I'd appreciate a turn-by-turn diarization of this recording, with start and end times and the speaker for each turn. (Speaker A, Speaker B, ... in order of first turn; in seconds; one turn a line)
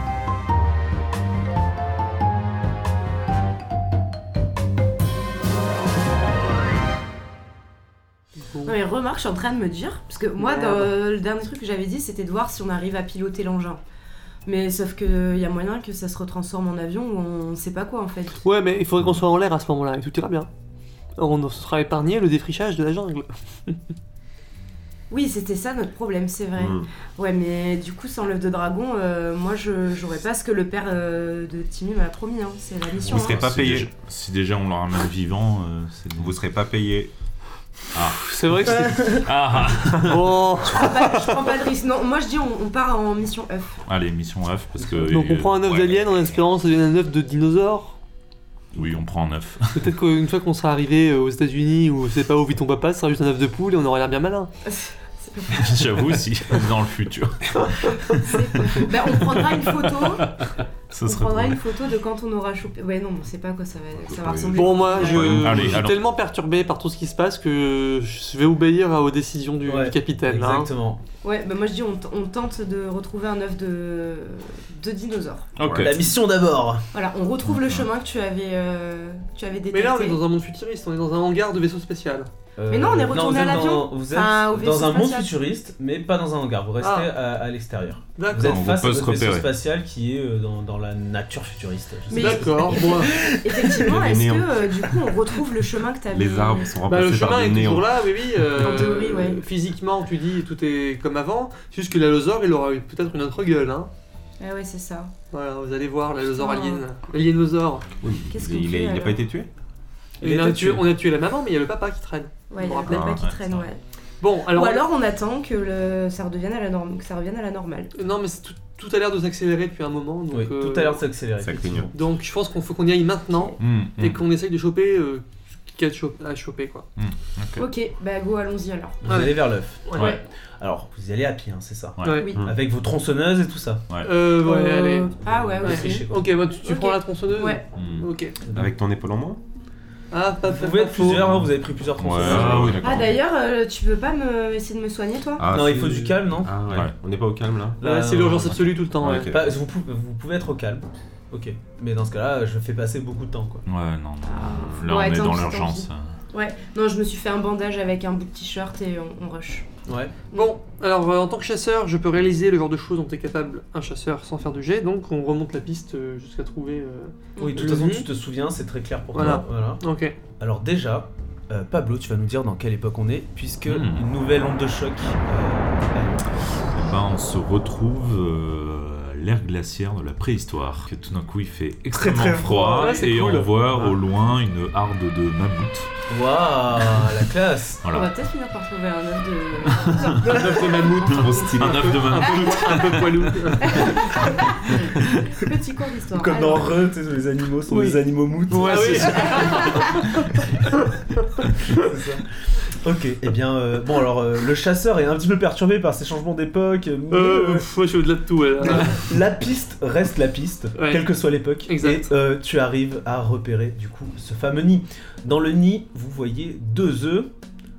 Speaker A: 8.6-13.8
Speaker B: 10.4-10.9
Speaker A: 14.4-18.4
Speaker B: 18.4-20.5
Speaker B: 21.2-23.8
Speaker A: 25.1-33.4
Speaker C: 26.6-26.9
Speaker D: 33.0-36.4
Speaker C: 33.1-33.9
Speaker C: 36.2-37.1
Speaker D: 37.9-40.2
Speaker B: 38.2-39.3
Speaker B: 39.8-41.4
Speaker A: 40.7-43.8
Speaker D: 43.9-46.0
Speaker E: 44.8-45.2
Speaker B: 45.1-48.0
Speaker D: 48.7-49.9
Speaker B: 49.7-54.5
Speaker A: 54.6-55.9
Speaker D: 55.5-61.6
Speaker A: 58.0-60.3
Speaker A: 60.9-65.7
Speaker D: 64.0-66.0
Speaker B: 64.5-70.7
Speaker E: 69.6-71.0
Speaker A: 71.2-75.5
Speaker D: 75.6-76.1
Speaker E: 75.7-76.8
Speaker A: 76.9-80.2
Speaker D: 77.5-77.9
Speaker B: 79.7-82.3
Speaker E: 82.6-93.8
Speaker A: 82.7-85.3
Speaker B: 86.8-87.1
Speaker B: 88.2-88.6
Speaker D: 88.4-89.5
Speaker A: 92.1-96.7
Speaker B: 92.1-93.1
Speaker C: 93.7-95.1
Speaker C: 96.1-98.0
Speaker B: 96.8-103.9
Speaker A: 98.5-99.4
Speaker A: 104.4-105.1
Speaker B: 105.3-107.9
Speaker A: 106.2-106.8
Speaker C: 108.0-109.5
Speaker A: 108.3-109.2
Speaker B: 110.2-113.1
Speaker E: 110.2-110.9
Speaker A: 112.5-113.8
Speaker C: 112.8-113.2
Speaker D: 113.2-113.7
Speaker B: 114.2-114.8
Speaker A: 114.5-117.9
Speaker B: 117.9-121.0
Speaker E: 120.3-121.9
Speaker C: 121.4-121.9
Speaker B: 121.9-126.8
Speaker D: 123.6-124.2
Speaker D: 127.0-127.7
Speaker A: 127.6-129.0
Speaker E: 129.0-133.8
Speaker B: 129.0-130.2
Speaker A: 129.9-130.2
Speaker D: 132.0-132.2
Speaker B: 132.0-132.3
Speaker A: 132.2-132.4
Speaker C: 132.3-132.5
Speaker B: 134.0-138.3
Speaker A: 134.4-136.1
Speaker E: 135.2-136.3
Speaker A: 136.6-137.6
Speaker D: 137.7-138.1
Speaker E: 138.5-138.7
Speaker C: 138.5-139.4
Speaker B: 140.1-141.3
Speaker E: 140.5-142.8
Speaker D: 141.2-143.2
Speaker C: 142.2-143.1
Speaker A: 142.8-145.4
Speaker C: 145.4-147.8
Speaker E: 145.5-146.5
Speaker D: 146.7-146.9
Speaker E: 147.8-148.6
Speaker B: 147.8-149.3
Speaker C: 149.0-149.5
Speaker E: 149.2-153.6
Speaker D: 153.7-156.2
Speaker A: 154.2-159.7
Speaker E: 159.8-160.1
Speaker B: 160.3-168.1
Speaker A: 167.3-167.6
Speaker E: 167.4-169.8
Speaker B: 169.1-170.1
Speaker E: 170.4-176.4
Speaker D: 173.7-174.1
Speaker D: 176.7-185.9
Speaker E: 181.9-183.0
Speaker B: 182.3-183.5
Speaker E: 183.7-184.0
Speaker E: 186.1-187.8
Speaker D: 187.8-188.1
Speaker A: 187.9-192.8
Speaker B: 190.2-194.0
Speaker E: 190.2-190.7
Speaker D: 191.1-193.9
Speaker A: 193.6-196.8
Speaker E: 196.1-199.9
Speaker B: 197.7-198.0
Speaker B: 198.5-200.2
Speaker A: 198.6-200.1
Speaker E: 201.7-207.7
Speaker B: 207.1-209.0
Speaker E: 208.6-217.3
Speaker B: 210.8-211.1
Speaker B: 211.7-212.1